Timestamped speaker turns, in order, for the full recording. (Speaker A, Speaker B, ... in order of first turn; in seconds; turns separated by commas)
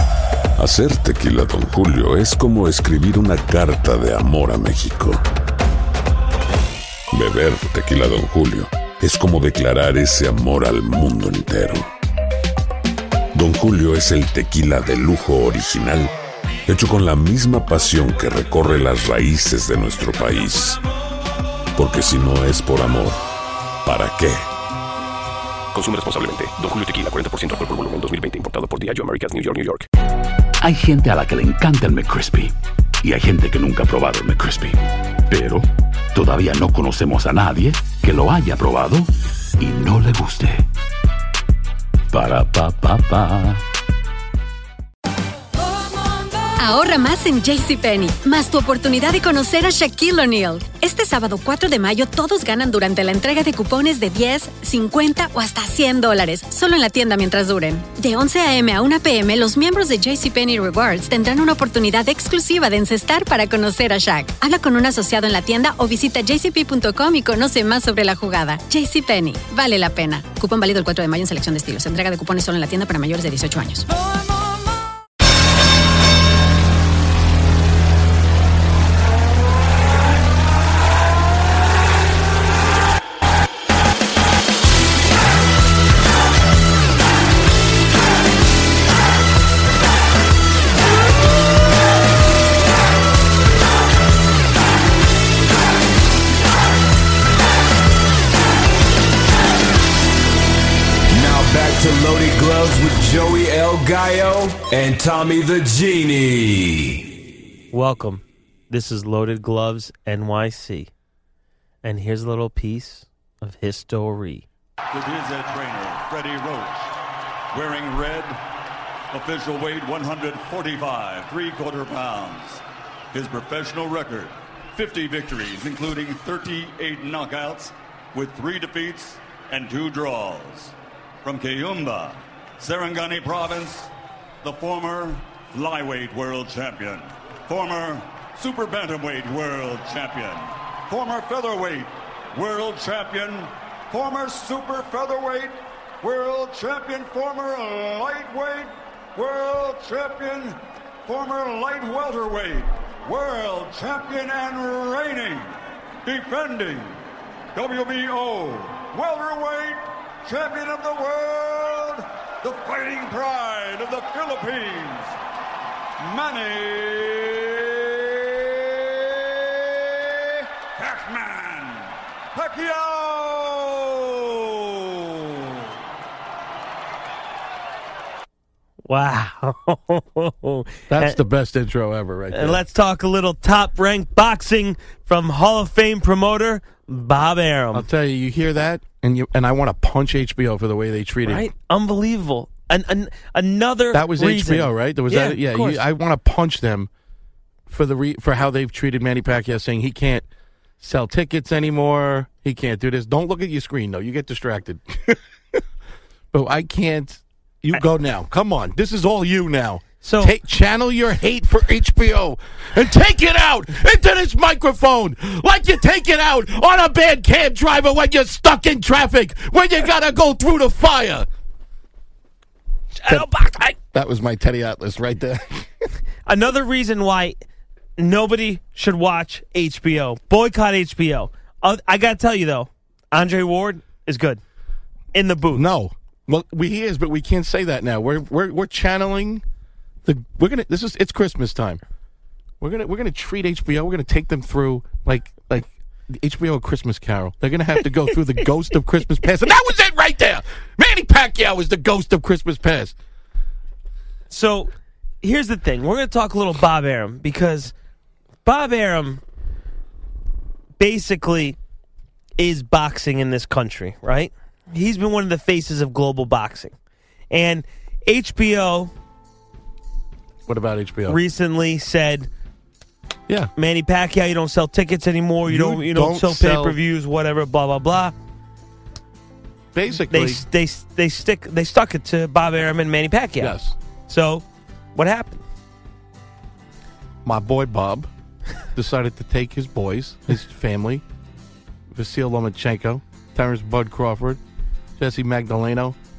Speaker A: 0.6-5.2, Speaker A: 7.1-11.9, Speaker A: 13.3-16.1, Speaker A: 16.7-20.8, Speaker A: 21.8-23.2, Speaker A: 23.8-24.4, Speaker B: 25.7-29.8, Speaker C: 30.6-40.6, Speaker C: 42.1-43.6, Speaker D: 46.6-73.9, Speaker E: 101.1-107.0, Speaker F: 107.7-110.9, Speaker F: 111.8-114.5, Speaker G: 114.9-116.9, Speaker G: 117.5-118.4, Speaker G: 119.1-133.9, Speaker G: 134.4-155.5, Speaker G: 156.0-157.0, Speaker G: 157.5-165.2, Speaker G: 166.0-175.6, Speaker F: 178.8-181.2, Speaker H: 180.9-182.6, Speaker F: 182.3-187.9, Speaker H: 187.7-191.5, Speaker F: 191.2-195.8, Speaker H: 193.9-196.9, Speaker H: 197.7-200.2, Speaker H: 200.8-205.6, Speaker H: 206.3-221.3, Speaker F: 210.0-210.3, Speaker F: 222.9-223.8, Speaker H: 223.1-225.9, Speaker F: 226.2-227.4, Speaker F: 228.0-234.4, Speaker F: 235.1-235.6, Speaker H: 235.5-239.4, Speaker H: 240.0-241.8, Speaker H: 242.6-252.9, Speaker F: 254.3-257.7, Speaker F: 258.4-259.2, Speaker F: 260.8-261.6, Speaker F: 262.4-266.7, Speaker F: 267.3-268.9, Speaker H: 270.4-271.2, Speaker F: 271.1-272.3, Speaker F: 273.6-278.1, Speaker H: 275.4-276.8, Speaker H: 279.7-280.4, Speaker F: 280.1-283.6, Speaker H: 283.4-283.8, Speaker F: 284.1-284.4, Speaker F: 284.9-285.4, Speaker H: 287.2-288.1, Speaker H: 288.7-291.0, Speaker H: 291.9-294.4, Speaker H: 295.0-295.9